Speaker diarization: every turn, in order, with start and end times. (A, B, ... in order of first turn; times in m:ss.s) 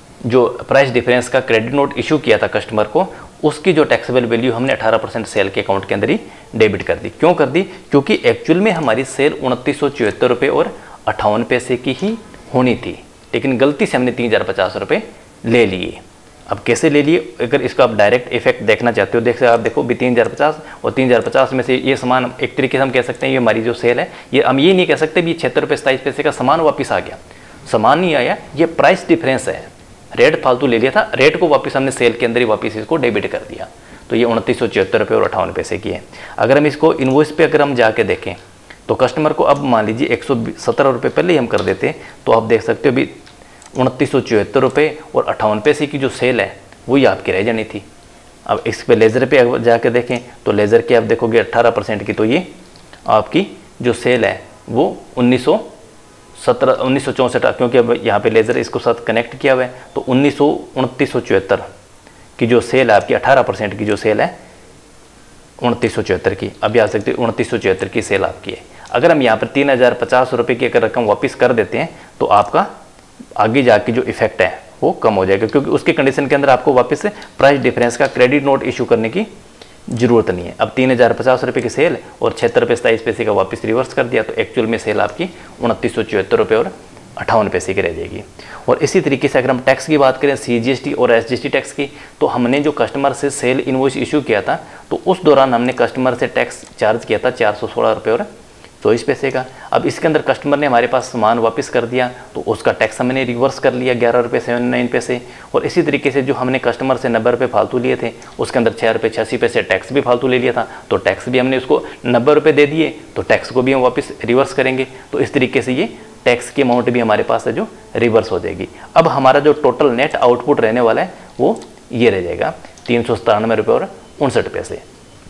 0:00.2-0:43.2 A
0:43.8-0:47.9 A
0:48.5-0:52.5 A
0:53.1-0:55.7 A
0:56.4-1:01.7 A
1:02.4-1:04.4 A
1:05.6-1:12.7 A
1:13.4-1:19.3 A
1:19.9-1:38.3 A
1:38.8-2:04.8 A